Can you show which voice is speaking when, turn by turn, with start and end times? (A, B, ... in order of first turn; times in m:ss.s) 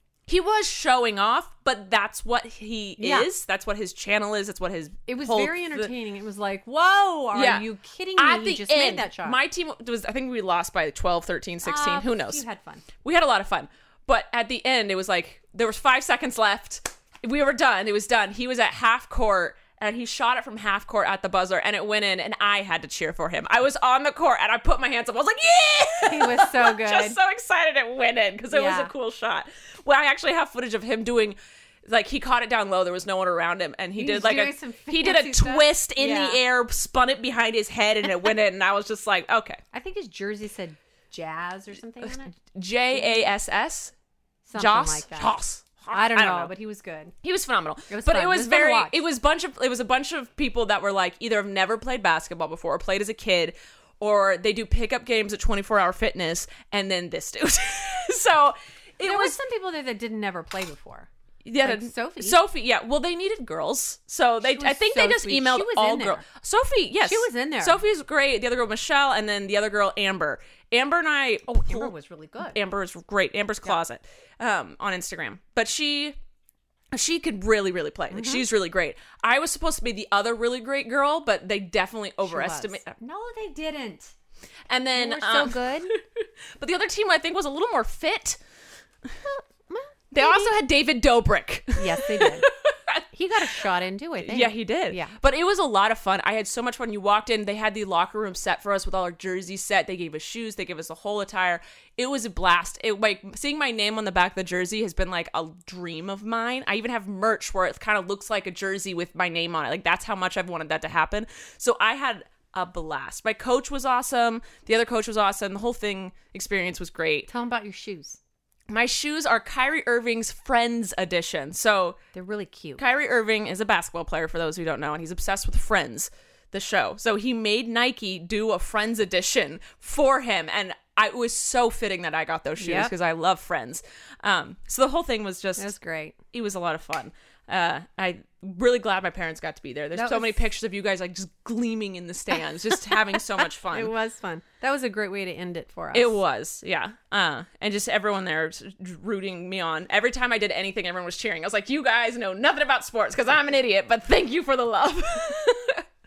0:00.3-0:05.9 A
0:03.0-0:03.3 B
0:05.1-0:09.4 B
0:07.3-0:12.4 A
0:11.6-0:12.8 B
0:13.0-0:39.6 A
0:26.0-0:27.2 B
0:28.5-0:28.9 B
0:34.0-0:36.4 B
0:39.7-0:42.3 B
0:42.0-0:43.9 A
0:42.9-0:43.3 B
0:44.4-0:45.3 B
0:44.5-0:46.5 A
0:45.9-0:47.1 B
0:47.2-0:59.4 A
0:47.9-0:49.0 B
0:59.0-1:01.1 B
1:01.4-1:11.9 A
1:01.6-1:02.4 B
1:04.4-1:06.2 B
1:07.0-1:07.8 B
1:11.5-1:12.6 B
1:12.4-1:16.2 A
1:16.9-1:22.9 A
1:18.1-1:18.4 B
1:22.2-1:24.1 B
1:24.7-1:26.0 A
1:25.0-1:25.9 B
1:26.6-1:28.4 A
1:29.2-1:30.5 B
1:30.1-1:33.0 A
1:31.8-1:32.5 B
1:33.1-1:35.1 B
1:34.2-1:57.3 A
1:57.3-1:58.2 B
1:58.7-2:02.0 A
2:02.1-2:02.8 B
2:02.8-2:15.7 A
2:12.6-2:12.9 B
2:15.6-2:16.2 B
2:16.3-2:23.9 A
2:20.0-2:20.4 B
2:22.9-2:23.2 B
2:23.7-2:26.2 B
2:25.9-2:35.8 A